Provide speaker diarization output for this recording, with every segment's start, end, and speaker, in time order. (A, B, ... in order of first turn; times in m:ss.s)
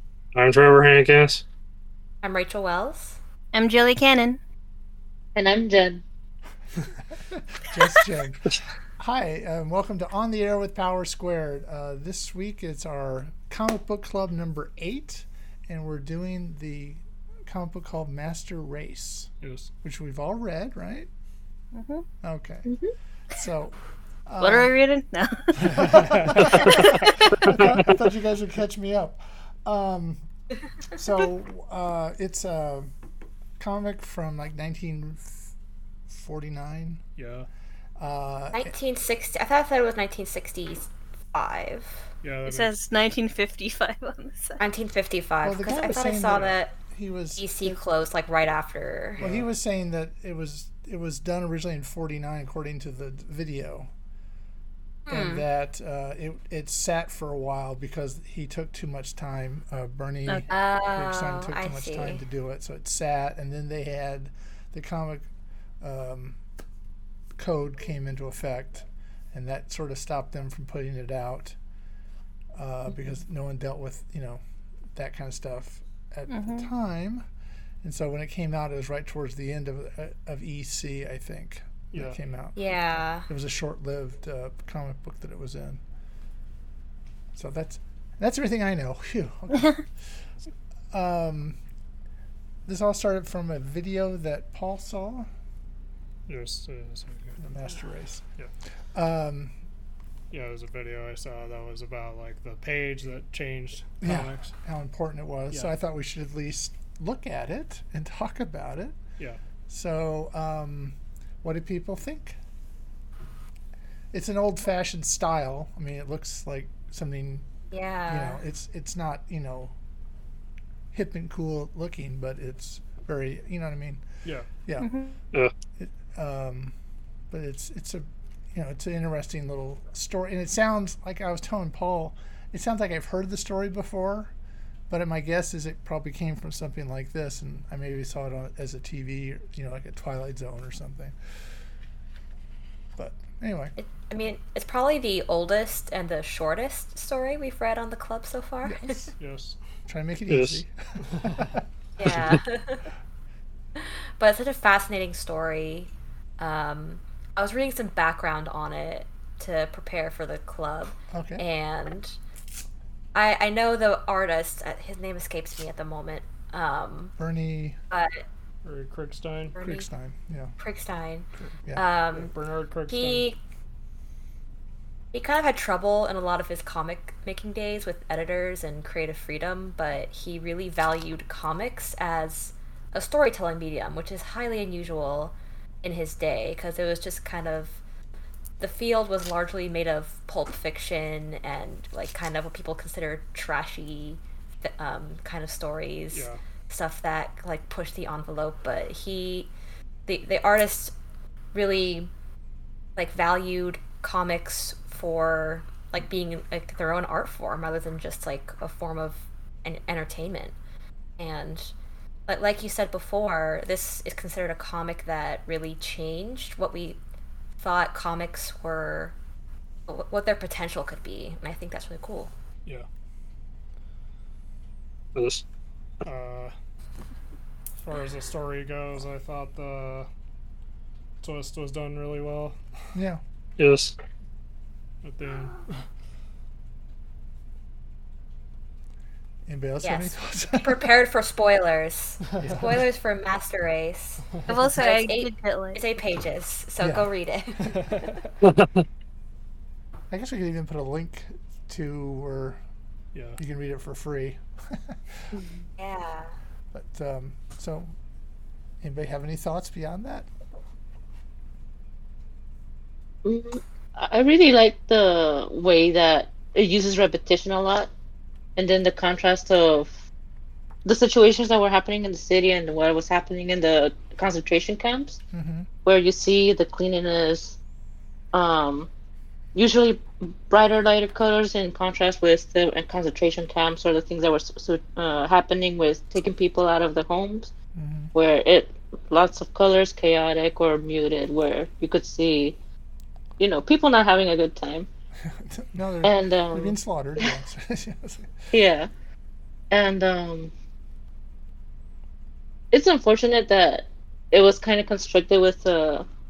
0:00.4-0:01.4 A
0:00.4-0:01.4 B
0:02.2-0:03.2 C
0:03.5-0:04.4 D
0:05.4-0:06.0 E
0:07.2-0:19.3 F
0:19.4-0:19.7 B
0:19.8-0:21.1 F
0:21.8-0:22.1 D
0:22.2-0:22.8 F
0:23.3-0:24.7 F
0:24.4-0:26.9 D
0:25.6-0:30.3 F
0:26.0-0:26.6 B
0:30.9-0:32.9 F
0:33.6-0:35.5 F
0:36.1-0:37.0 F
0:37.2-0:37.5 B
0:38.0-0:38.7 F
0:38.5-0:42.0 C
0:42.2-0:42.7 B
0:42.5-0:44.6 D
0:44.6-0:46.8 C
0:45.4-0:47.8 F
0:47.4-0:49.2 C
0:49.2-0:49.5 B
0:49.2-0:53.9 F
0:55.1-0:55.4 C
0:55.1-1:05.3 F
1:00.5-1:02.2 C
1:05.8-1:06.4 F
1:07.4-1:11.6 F
1:12.5-1:14.4 F
1:15.0-1:17.2 F
1:16.3-1:16.7 D
1:17.8-1:25.8 F
1:22.6-1:23.3 C
1:27.3-1:30.2 F
1:30.9-1:31.6 F
1:32.7-1:35.3 F
1:36.3-1:37.4 B
1:37.4-1:38.2 F
1:38.9-1:39.5 F
1:40.3-1:44.5 B
1:44.0-1:49.0 F
1:49.7-1:52.4 F
1:54.1-1:57.5 F
1:57.7-1:58.4 C
1:58.1-1:59.8 F
2:00.9-2:04.0 F
2:04.6-2:04.9 F
2:04.8-2:05.1 D
2:05.8-2:06.7 F
2:07.3-2:14.3 F
2:14.9-2:21.2 F
2:23.0-2:23.8 F
2:23.8-2:29.0 C
2:28.6-2:29.2 F
2:29.2-2:29.6 B
2:29.9-2:31.6 F
2:30.3-2:30.6 A
2:31.1-2:31.4 B
2:32.0-2:32.9 C
2:33.8-2:42.2 C
2:41.1-2:41.4 F
2:43.1-2:47.1 C
2:47.2-2:47.8 F
2:47.9-2:48.2 C
2:48.6-2:49.6 B
2:49.6-2:49.9 C
2:49.6-2:50.6 F
2:50.6-2:52.3 C
2:51.4-2:51.8 F
2:52.1-2:53.3 B
2:52.9-2:53.4 C
2:55.1-3:07.8 C
3:08.6-3:19.5 C
3:16.1-3:16.4 B
3:20.1-3:20.9 C
3:21.5-3:22.1 C
3:23.0-3:30.6 C
3:31.2-3:31.7 C
3:32.3-3:37.0 C
3:37.6-3:39.2 C
3:39.9-3:42.3 C
3:45.2-3:45.4 A
3:46.0-3:46.5 B
3:47.8-3:50.1 B
3:51.2-3:52.6 B
3:52.9-3:53.2 F
3:53.6-3:53.9 A
3:55.0-3:55.8 B
3:59.5-4:00.9 F
3:59.8-4:08.1 C
4:02.4-4:02.8 F
4:04.5-4:05.8 D
4:06.8-4:07.1 F
4:07.7-4:08.2 B
4:10.1-4:12.6 F
4:13.1-4:13.4 B
4:13.4-4:15.3 F
4:15.8-4:16.3 C
4:16.7-4:17.9 F
4:18.8-4:20.3 F
4:23.2-4:27.9 E
4:28.6-4:29.9 E
4:30.8-4:35.2 E
4:35.3-4:35.7 F
4:35.8-4:37.6 E
4:38.3-4:38.9 E
4:39.5-4:47.5 E
4:47.8-4:48.1 F
4:48.1-4:52.6 E
4:53.4-4:54.9 E
4:55.2-4:58.5 F
4:56.0-4:57.3 E
4:58.5-4:58.9 E
4:59.7-5:00.5 E
5:02.7-5:06.1 E